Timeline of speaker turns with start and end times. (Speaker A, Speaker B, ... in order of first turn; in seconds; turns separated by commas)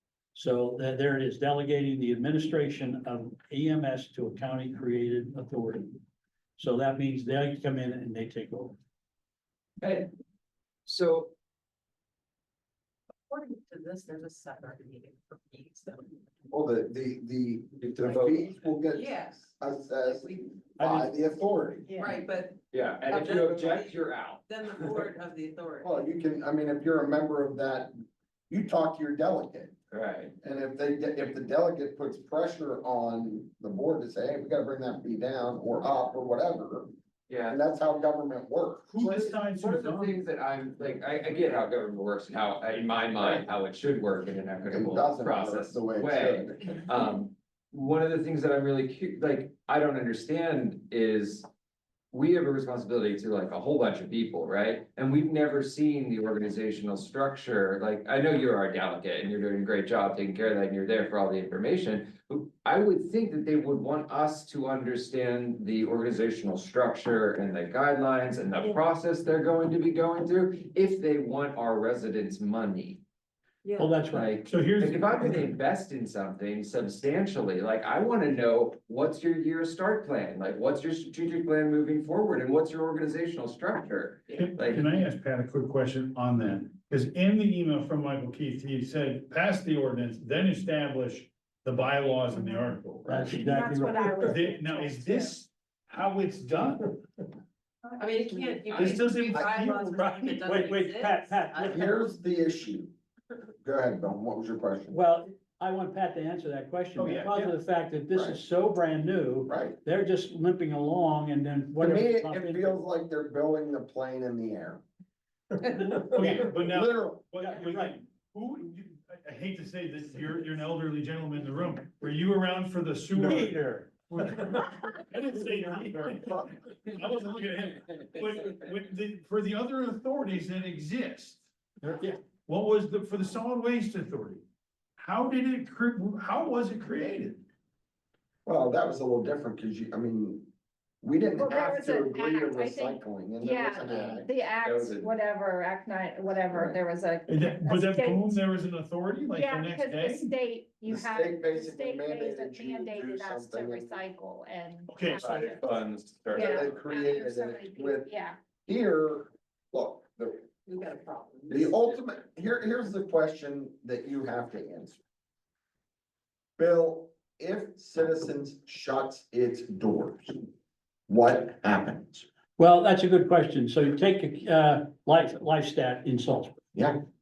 Speaker A: 0.3-6.0, Speaker A: 6.6-8.8, Speaker B: 9.8-10.1, Speaker B: 10.9-11.3, Speaker C: 13.3-16.1, Speaker D: 16.5-21.9, Speaker B: 17.8-18.5, Speaker C: 18.8-19.5, Speaker A: 20.8-21.1, Speaker C: 22.0-26.0, Speaker B: 22.7-24.5, Speaker D: 23.3-23.8, Speaker D: 25.8-27.9, Speaker D: 28.5-29.7, Speaker B: 29.9-30.3, Speaker D: 30.4-36.9, Speaker B: 37.3-37.6, Speaker D: 37.5-39.3, Speaker E: 38.9-40.2, Speaker B: 39.4-51.5, Speaker D: 43.2-43.4, Speaker D: 44.7-46.9, Speaker B: 52.1-73.0, Speaker C: 73.6-73.9, Speaker A: 73.8-74.3, Speaker B: 74.1-84.9, Speaker E: 74.5-75.5, Speaker E: 84.3-97.0, Speaker A: 93.1-94.3, Speaker F: 93.3-95.4, Speaker C: 98.0-101.8, Speaker F: 98.0-98.7, Speaker E: 98.7-100.4, Speaker A: 100.4-101.9, Speaker D: 101.7-102.9, Speaker D: 103.6-105.0, Speaker A: 104.9-112.8, Speaker E: 107.0-107.5, Speaker D: 108.1-108.4, Speaker D: 109.5-109.8, Speaker D: 111.8-114.8, Speaker D: 116.1-117.4, Speaker E: 116.1-123.6, Speaker A: 117.5-117.9, Speaker A: 123.2-124.7, Speaker E: 124.1-131.4, Speaker A: 131.8-132.2, Speaker E: 132.5-134.4, Speaker E: 135.0-137.4, Speaker D: 138.5-140.5, Speaker D: 141.0-144.3, Speaker F: 141.4-148.4, Speaker B: 144.6-145.1, Speaker D: 146.3-146.8, Speaker E: 147.3-150.3, Speaker F: 149.3-155.7, Speaker D: 150.9-154.3, Speaker E: 154.9-155.3, Speaker B: 155.2-156.8, Speaker F: 156.3-158.4, Speaker D: 156.3-158.1, Speaker D: 158.7-160.5, Speaker C: 160.7-161.8, Speaker D: 161.5-165.0, Speaker D: 166.6-170.4, Speaker D: 171.1-172.3, Speaker A: 172.6-176.6